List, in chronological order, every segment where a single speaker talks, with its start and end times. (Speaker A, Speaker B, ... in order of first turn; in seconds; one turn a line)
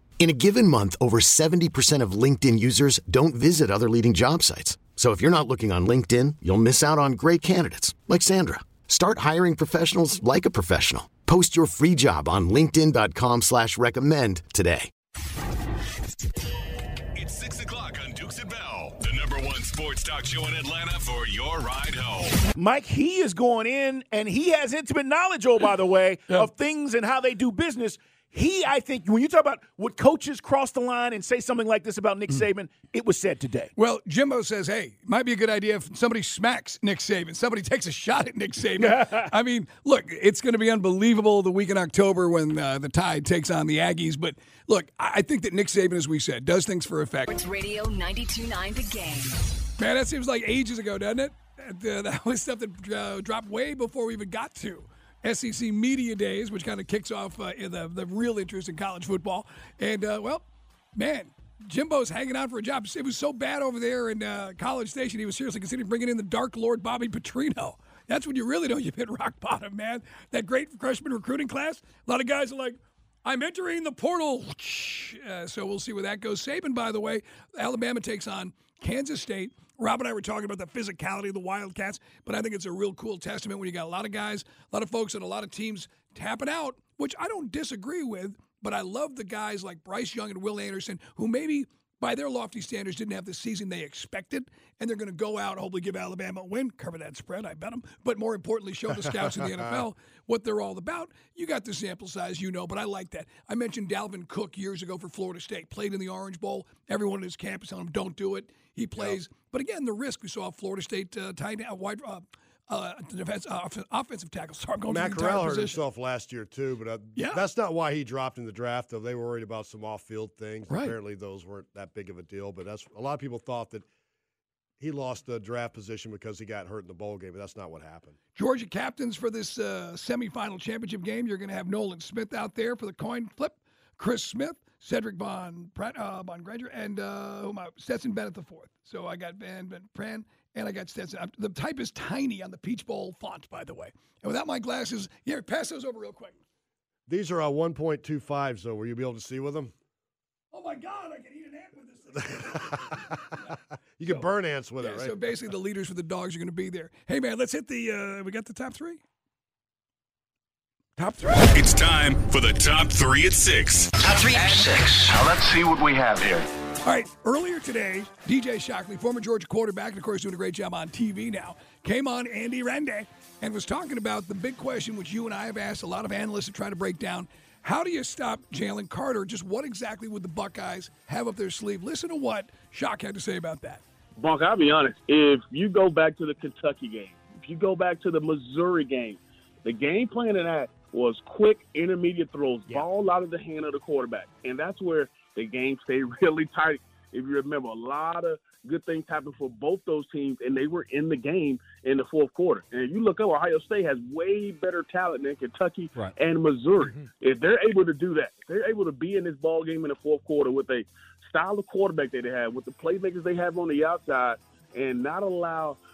Speaker A: 0.2-14.9
Speaker B: 17.1-22.4
Speaker C: 22.5-33.7
Speaker D: 33.8-47.3
Speaker C: 38.8-39.3
Speaker E: 47.3-49.4
Speaker D: 49.8-115.8
Speaker F: 98.9-99.8
Speaker F: 114.9-123.8
Speaker D: 117.2-117.4
Speaker D: 120.7-121.0
Speaker F: 124.8-128.2
Speaker D: 128.3-146.4
Speaker F: 147.1-149.7
Speaker D: 150.5-153.5
Speaker F: 152.3-153.2
Speaker F: 154.0-155.1
Speaker D: 154.8-159.0
Speaker D: 161.0-161.6
Speaker B: 161.5-163.9
Speaker G: 164.0-166.4
Speaker D: 166.8-183.8
Speaker H: 184.2-215.8